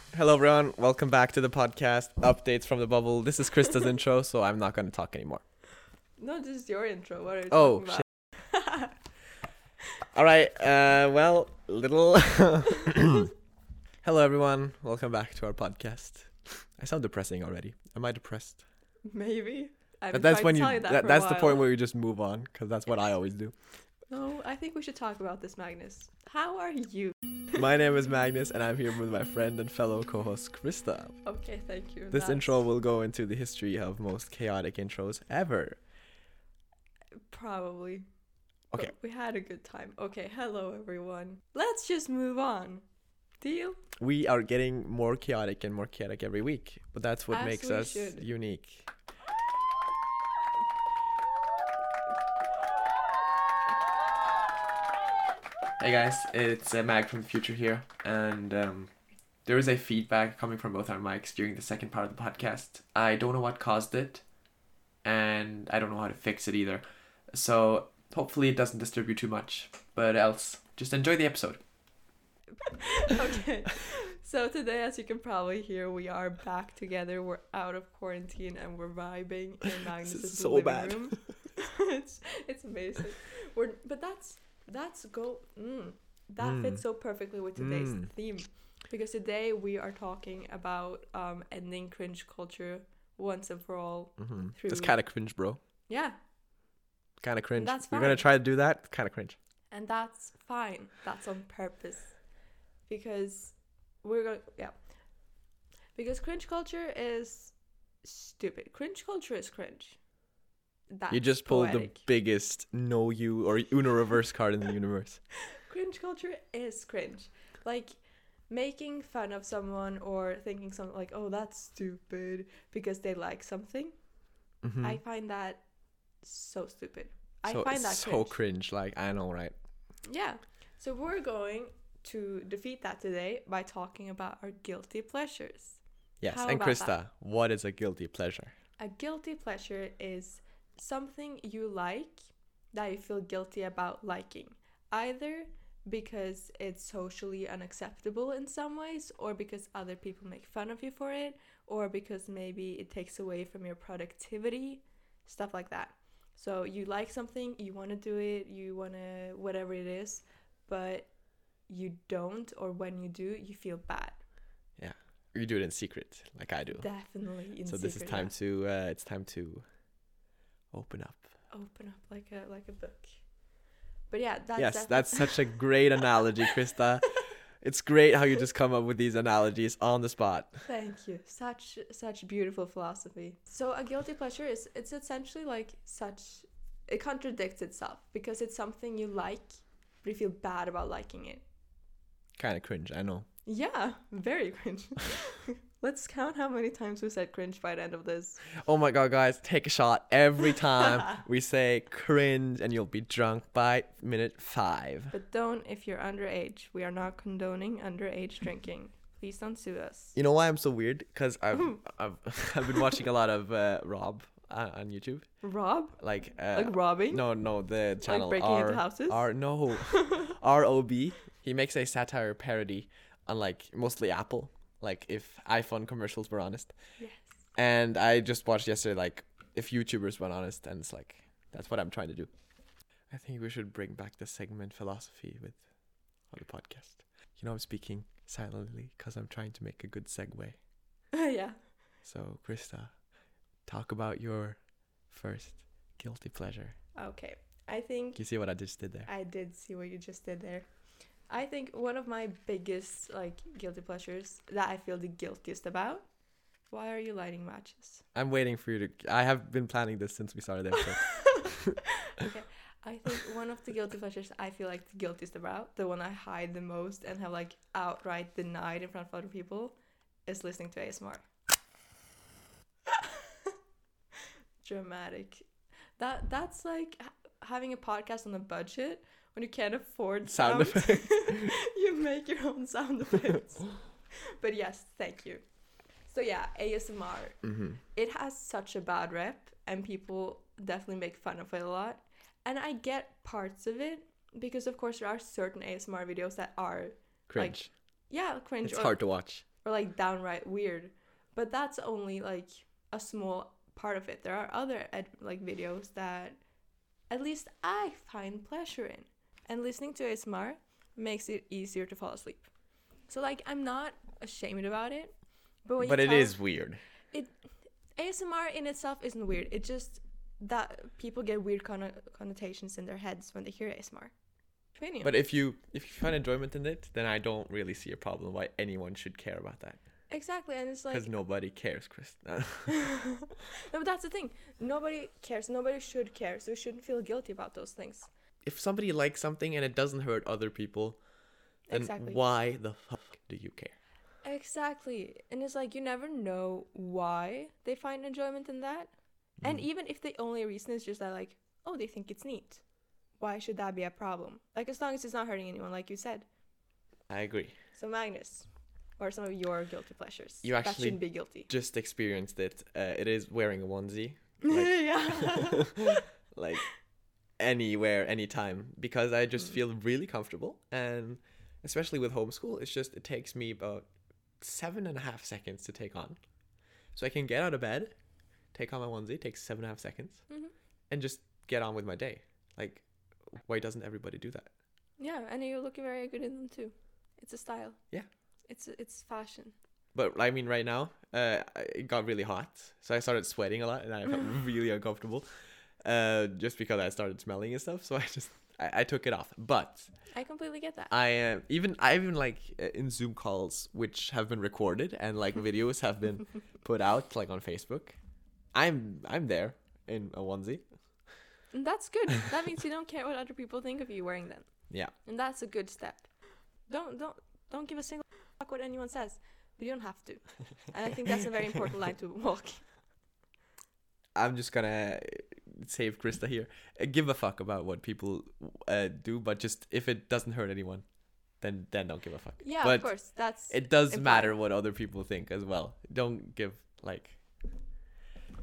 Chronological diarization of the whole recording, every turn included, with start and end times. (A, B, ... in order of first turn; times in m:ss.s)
0:00.1-0:05.4 A
0:06.2-0:09.0 B
0:07.5-0:08.0 A
0:10.1-0:13.3 A
0:14.0-0:18.6 A
0:19.0-0:21.6 B
0:20.1-0:23.5 A
0:24.1-0:27.6 B
0:27.6-0:31.2 A
0:31.2-0:32.6 B
0:32.1-0:35.8 A
0:37.3-0:38.1 B
0:38.7-0:42.8 B
0:43.4-0:43.8 B
0:44.0-0:48.9 A
0:47.3-0:48.2 B
0:55.8-0:58.9 A
0:59.4-1:04.2 A
1:05.0-1:11.6 A
1:12.6-1:35.0 B
1:20.0-1:21.2 A
1:26.4-1:26.8 A
1:27.6-1:28.1 A
1:34.2-1:35.6 A
1:35.9-1:36.2 B
1:37.2-1:39.4 A
1:37.6-1:38.2 B
1:39.7-1:42.2 B
1:42.9-1:44.8 B
1:46.0-1:50.0 B
1:50.9-1:52.0 B
1:51.1-1:55.2 A
1:55.5-1:58.0 B
1:58.5-2:03.9 B
2:04.6-2:05.0 A
2:04.8-2:05.6 B
2:06.2-2:08.4 B
2:07.5-2:09.5 A
2:10.0-2:17.0 B
2:16.2-2:18.5 A
2:18.8-2:41.1 B
2:41.7-2:44.2 B
2:44.8-2:46.9 A
2:46.8-2:48.3 B
2:47.6-2:49.6 A
2:50.7-2:51.3 A
2:51.5-2:53.2 B
2:54.1-2:55.7 B
2:54.6-3:00.6 A
3:00.6-3:11.4 B
3:12.4-3:13.2 A
3:13.4-3:18.4 B
3:18.6-3:25.2 A
3:25.1-3:30.2 B
3:30.1-3:35.2 A
3:35.4-3:36.0 B
3:36.0-3:46.7 A
3:36.5-3:37.2 B
3:38.0-3:40.2 B
3:47.0-3:47.4 B
3:47.6-3:52.3 A
3:53.1-3:55.6 A
3:56.3-4:00.6 A
4:01.1-4:01.6 B
4:02.0-4:02.9 A
4:03.6-4:06.7 A
4:06.9-4:08.2 B
4:08.2-4:09.1 A
4:09.0-4:10.7 B
4:11.3-4:16.0 B
4:16.7-4:18.0 B
4:18.1-4:21.8 A
4:20.9-4:21.5 B
4:22.0-4:31.2 B
4:32.9-4:33.5 B
4:34.6-4:35.5 B
4:36.0-4:45.4 B
4:40.3-4:41.5 A
4:46.0-5:06.4 B
4:47.4-4:47.8 A
4:57.3-4:57.7 A
4:58.6-4:59.4 A
5:07.1-5:12.5 B
5:13.1-5:15.1 B
5:15.6-5:16.4 B
5:15.8-5:16.8 A
5:18.0-5:24.1 B
5:24.8-5:25.1 B
5:25.0-5:29.8 A
5:30.1-5:31.1 B
5:30.9-5:32.7 A
5:32.7-5:38.1 B
5:38.4-5:41.0 A
5:41.7-5:42.2 B
5:41.7-5:43.8 A
5:44.2-5:48.9 B
5:49.4-5:52.6 B
5:53.2-5:56.2 B
5:57.1-5:57.5 A
5:57.7-5:58.5 B
5:59.0-6:01.5 B
6:00.4-6:06.7 A
6:04.4-6:06.0 B
6:07.4-6:13.9 A
6:14.4-6:16.2 A
6:16.9-6:17.9 A
6:18.5-6:20.2 A
6:20.9-6:24.5 A
6:25.0-6:27.8 B
6:28.5-6:29.5 B
6:29.9-6:35.2 A
6:35.8-6:39.9 A
6:40.1-6:40.9 B
6:40.9-6:48.0 A
6:48.5-6:50.6 A
6:51.5-6:54.5 B
6:55.0-6:56.1 B
6:56.7-7:02.6 B
7:04.2-7:10.8 A
7:11.4-7:17.2 A
7:12.4-7:14.3 B